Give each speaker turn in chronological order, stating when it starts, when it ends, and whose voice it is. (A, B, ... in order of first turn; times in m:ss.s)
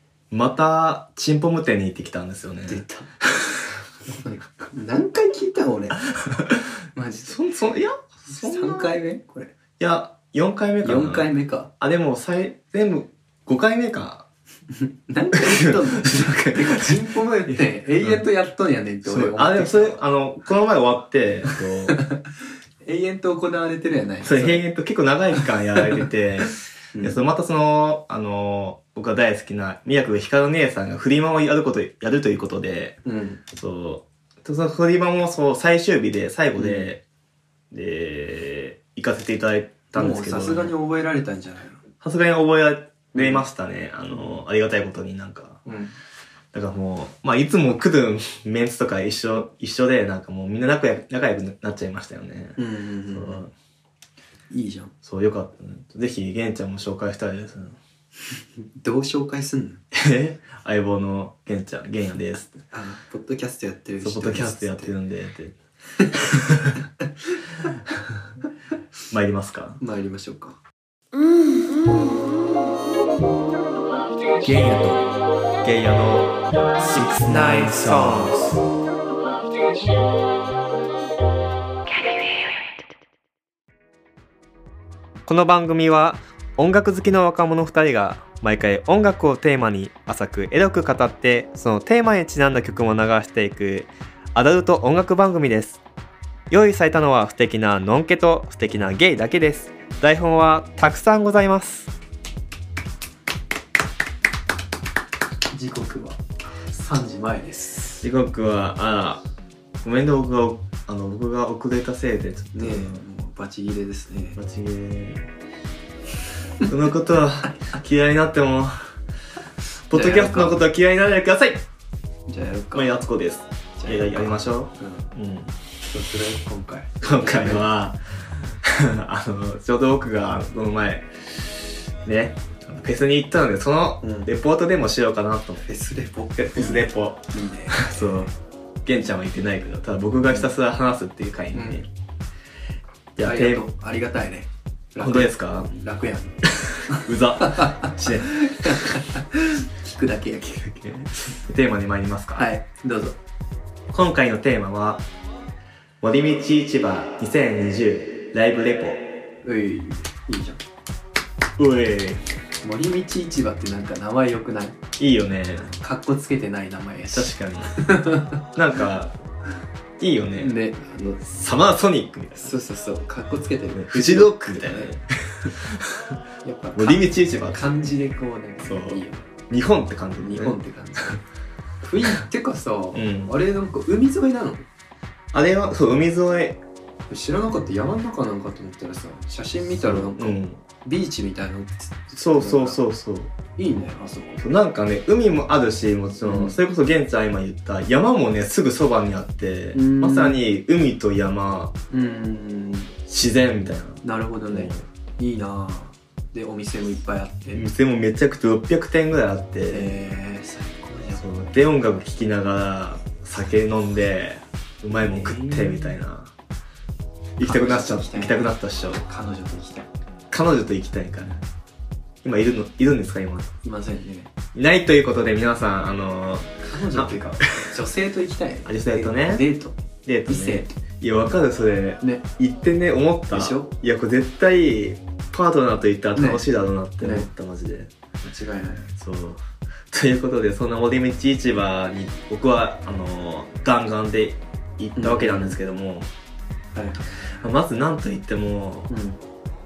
0:00.3-0:02.8 A
0:02.7-0:03.1 B
0:04.1-0:06.0 B
0:06.9-0:07.4 B
0:07.2-0:08.9 A
0:08.3-0:09.5 B
0:09.8-0:11.3 A
0:10.8-0:11.7 B
0:11.8-0:14.3 A
0:14.8-0:20.0 B
0:15.7-0:16.6 A
0:18.0-0:18.2 A
0:19.0-0:22.0 A
0:22.8-0:24.6 B
0:24.2-0:33.0 A
0:27.0-0:27.2 B
0:33.0-0:33.4 B
0:33.5-0:37.0 A
0:36.6-0:36.9 B
0:37.7-0:40.7 A
0:39.9-0:41.8 B
0:42.0-0:45.6 A
0:43.1-0:43.4 B
0:45.6-0:46.0 B
0:46.5-0:52.6 A
0:52.6-0:53.5 B
0:53.1-0:53.5 A
0:54.5-0:54.9 B
0:55.0-0:57.8 A
0:58.8-0:59.8 B
0:59.9-1:02.6 A
1:02.7-1:05.0 B
1:04.0-1:05.6 A
1:06.0-1:06.2 B
1:06.3-1:06.8 A
1:09.1-1:09.8 A
1:09.8-1:10.6 B
1:14.4-1:15.0 B
1:15.6-1:18.6 A
1:16.8-1:18.6 B
1:25.3-1:35.8 A
1:36.5-1:41.9 A
1:45.5-1:48.1 B
1:48.0-1:49.2 A
1:49.8-1:53.0 A
1:52.5-1:54.4 B
1:54.4-1:55.3 A
1:56.6-1:58.9 A
1:59.9-2:01.6 A
1:59.9-2:00.6 B
2:02.3-2:03.0 B
2:02.7-2:05.5 A
2:03.8-2:05.1 B
2:05.9-2:07.7 B
2:07.0-2:15.6 A
2:14.0-2:14.3 B
2:15.6-2:18.3 B
2:16.4-2:18.3 A
2:18.8-2:21.9 A
2:20.2-2:20.5 B
2:21.5-2:21.8 B
2:23.2-2:23.7 A
2:23.2-2:30.7 B
2:25.0-2:25.7 A
2:26.9-2:28.7 A
2:30.5-2:32.5 A
2:32.3-2:33.2 B
2:33.9-2:35.1 A
2:36.0-2:39.1 A
2:39.4-2:40.6 B
2:41.6-2:42.2 A
2:42.6-2:44.8 B
2:45.0-2:45.7 A
2:45.6-2:48.4 B
2:47.1-2:47.8 A
2:48.6-2:49.1 A
2:50.0-2:50.6 A
2:50.4-2:51.4 B
2:51.2-2:52.6 A
2:52.4-2:55.0 B
2:53.8-2:56.1 A
2:56.4-2:59.3 B
2:56.8-2:57.6 A
2:58.6-3:00.6 A
3:00.2-3:01.2 B
3:01.8-3:04.7 B
3:02.9-3:03.4 A
3:05.3-3:06.6 A
3:07.1-3:12.8 B
3:09.7-3:10.6 A
3:12.2-3:13.3 A
3:13.6-3:14.4 B
3:14.4-3:21.7 A
3:16.2-3:16.6 B
3:19.7-3:20.4 B
3:21.9-3:22.9 B
3:23.1-3:24.8 A
3:24.0-3:27.7 B
3:27.5-3:30.0 A
3:29.7-3:31.2 B
3:31.1-3:36.3 A
3:34.9-3:36.0 B
3:37.4-3:39.0 A
3:37.4-3:38.5 B
3:39.0-3:39.9 B
3:40.3-3:41.4 A
3:42.2-3:43.5 A
3:43.6-3:44.3 B
3:44.5-3:47.6 A
3:46.6-3:50.7 B
3:48.6-3:49.4 A
3:50.0-3:57.9 A
3:53.3-3:53.7 B
3:56.2-3:56.5 B
3:57.0-3:57.3 B
3:58.2-3:58.9 B
3:59.0-4:06.1 A
4:05.0-4:05.6 B
4:06.8-4:07.4 B
4:07.4-4:08.9 A
4:08.9-4:09.2 B